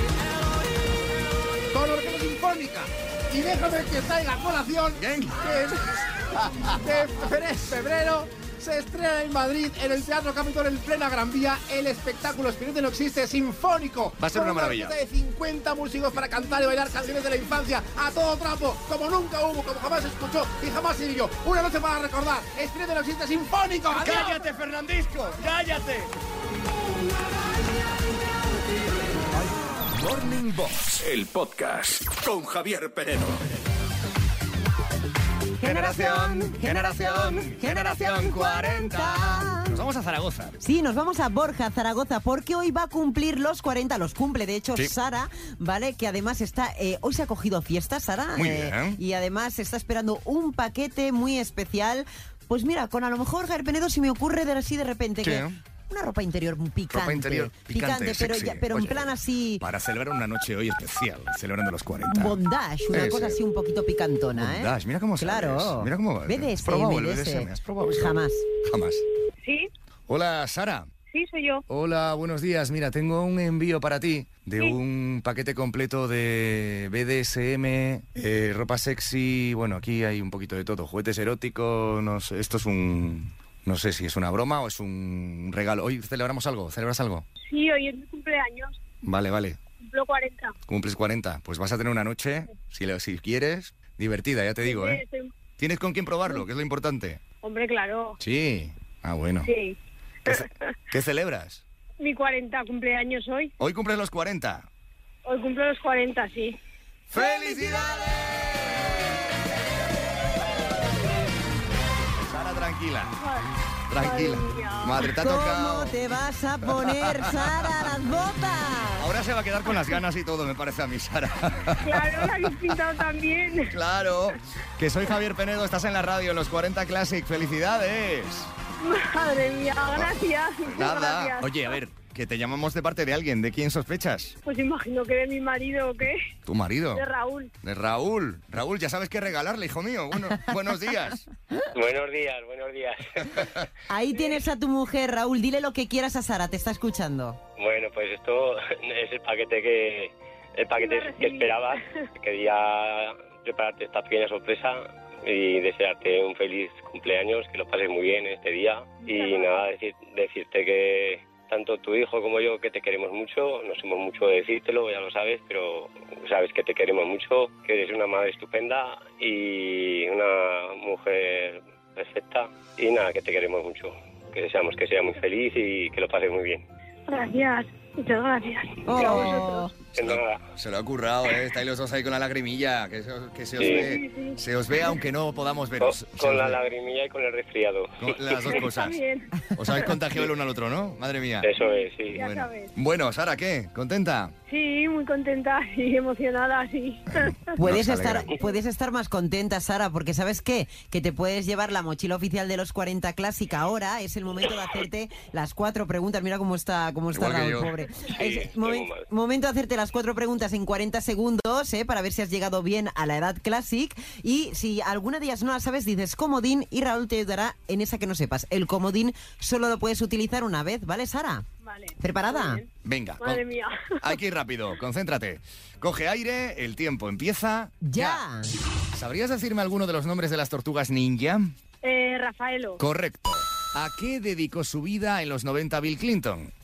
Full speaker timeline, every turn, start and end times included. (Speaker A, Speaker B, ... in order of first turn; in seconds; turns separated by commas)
Speaker A: 1.7-24.5, Speaker B: 5.0-6.8, Speaker B: 14.2-14.9, Speaker B: 23.9-26.1, Speaker C: 29.9-32.4, Speaker B: 32.3-33.4, Speaker D: 35.6-39.8, Speaker B: 35.6-40.6, Speaker D: 40.6-59.6, Speaker B: 48.4-49.0, Speaker B: 55.2-55.6, Speaker B: 56.9-62.4, Speaker D: 62.1-68.5, Speaker B: 62.9-63.4, Speaker B: 64.3-69.0, Speaker E: 69.4-69.7, Speaker B: 70.1-70.9, Speaker E: 71.1-71.6, Speaker B: 71.7-87.2, Speaker E: 87.5-88.8, Speaker B: 89.0-89.6, Speaker E: 89.8-90.5, Speaker B: 90.7-95.0, Speaker E: 94.6-95.3, Speaker B: 95.6-97.2, Speaker E: 97.4-98.2, Speaker B: 98.2-99.5, Speaker E: 99.5-100.5, Speaker B: 100.2-101.6, Speaker E: 102.0-103.5, Speaker B: 103.6-104.7, Speaker E: 105.2-106.6, Speaker B: 107.1-109.0, Speaker E: 107.2-108.1, Speaker B: 112.2-113.2, Speaker E: 113.2-115.1, Speaker B: 113.9-116.0, Speaker D: 115.1-119.1, Speaker B: 116.7-117.7, Speaker B: 119.0-122.5, Speaker E: 121.8-123.8, Speaker B: 123.7-128.5, Speaker E: 128.8-131.8, Speaker B: 130.7-134.4, Speaker E: 134.4-136.2, Speaker B: 136.5-137.0, Speaker E: 136.9-137.5, Speaker B: 137.6-141.3, Speaker F: 141.7-143.5, Speaker D: 143.9-147.4, Speaker F: 147.6-176.6, Speaker E: 150.8-152.0, Speaker E: 159.0-159.6, Speaker E: 177.1-179.7, Speaker D: 178.8-179.7, Speaker F: 180.0-180.4, Speaker B: 180.0-186.6, Speaker F: 183.6-183.9, Speaker E: 183.6-184.9, Speaker F: 185.8-188.6, Speaker B: 188.0-189.0, Speaker E: 188.5-189.9, Speaker B: 189.5-191.5, Speaker F: 191.4-192.2, Speaker E: 191.6-192.7, Speaker B: 192.1-194.3, Speaker E: 194.5-197.4, Speaker B: 197.2-198.3, Speaker D: 197.6-221.5, Speaker B: 207.1-207.7, Speaker F: 208.0-209.0, Speaker E: 221.6-222.7, Speaker D: 222.0-222.6, Speaker B: 222.8-223.4, Speaker E: 223.2-224.2, Speaker B: 224.0-228.2, Speaker D: 227.8-228.5, Speaker B: 228.9-231.5, Speaker E: 231.8-232.8, Speaker B: 232.8-236.5